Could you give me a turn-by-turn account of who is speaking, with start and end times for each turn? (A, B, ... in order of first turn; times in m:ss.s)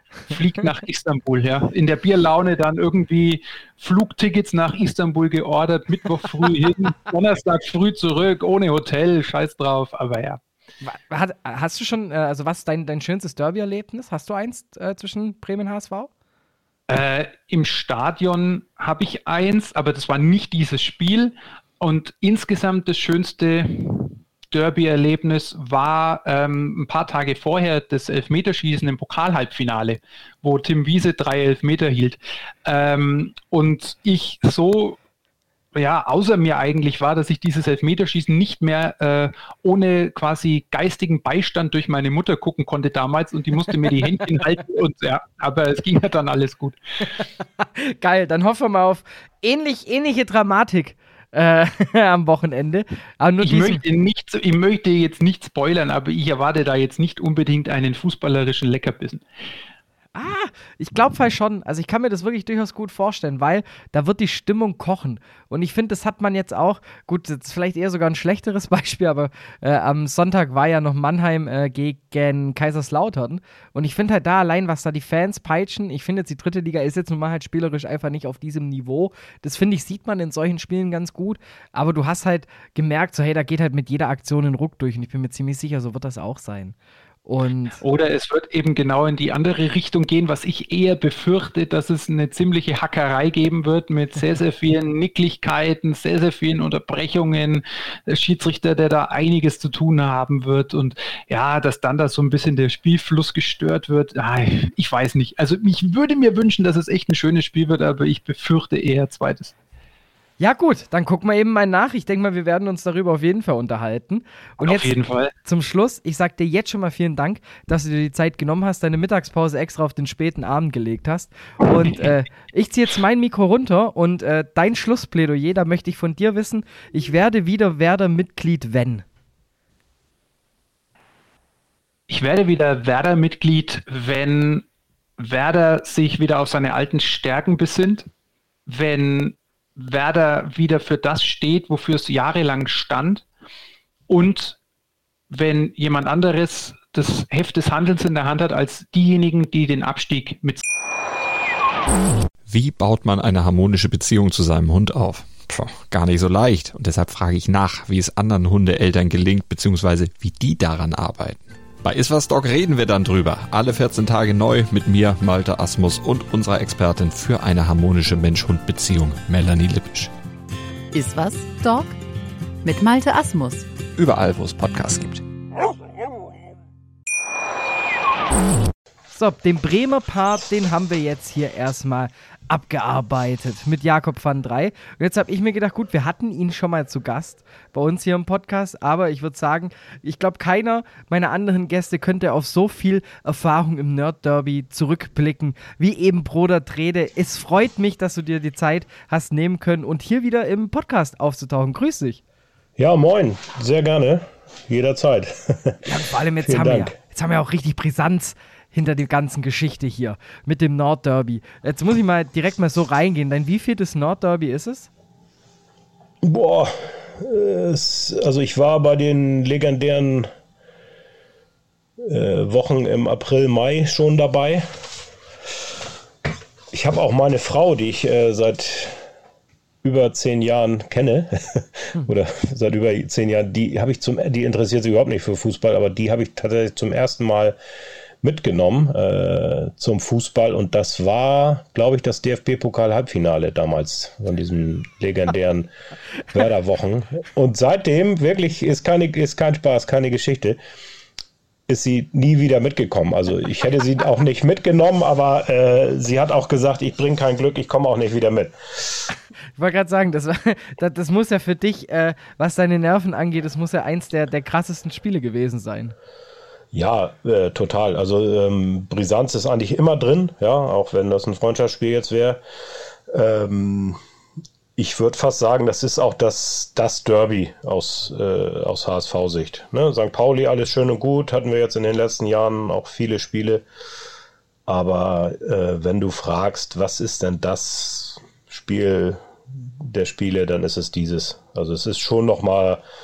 0:00.3-0:10.4 A
0:10.8-0:16.1 B
0:16.9-0:35.0 A
0:35.7-0:46.8 A
0:47.8-0:53.8 B
0:53.4-0:59.2 A
1:00.1-1:27.8 B
1:27.8-1:49.5 A
1:50.4-1:54.9 B
1:54.6-1:55.3 A
1:55.4-2:09.0 B
2:12.1-2:14.6 A
2:15.2-2:18.1 A
2:18.7-2:23.2 A
2:24.1-2:24.6 A
2:25.3-2:30.6 A
2:32.5-2:50.1 C
2:50.9-2:51.9 D
2:52.6-2:53.6 D
2:54.0-2:55.2 C
2:59.1-3:22.2 B
3:22.8-3:25.8 E
3:25.9-3:34.9 B
3:26.4-3:26.9 E
3:36.2-3:40.3 E
3:42.0-3:44.6 E
3:46.7-3:49.0 E
3:49.8-3:57.6 E
3:58.2-4:05.7 E
4:06.3-4:10.6 E
4:11.7-4:19.0 E
4:19.6-4:25.9 B
4:26.7-4:32.4 E
4:33.1-4:34.0 E
4:34.8-4:43.6 E
4:44.7-4:49.2 E
4:49.8-4:52.8 E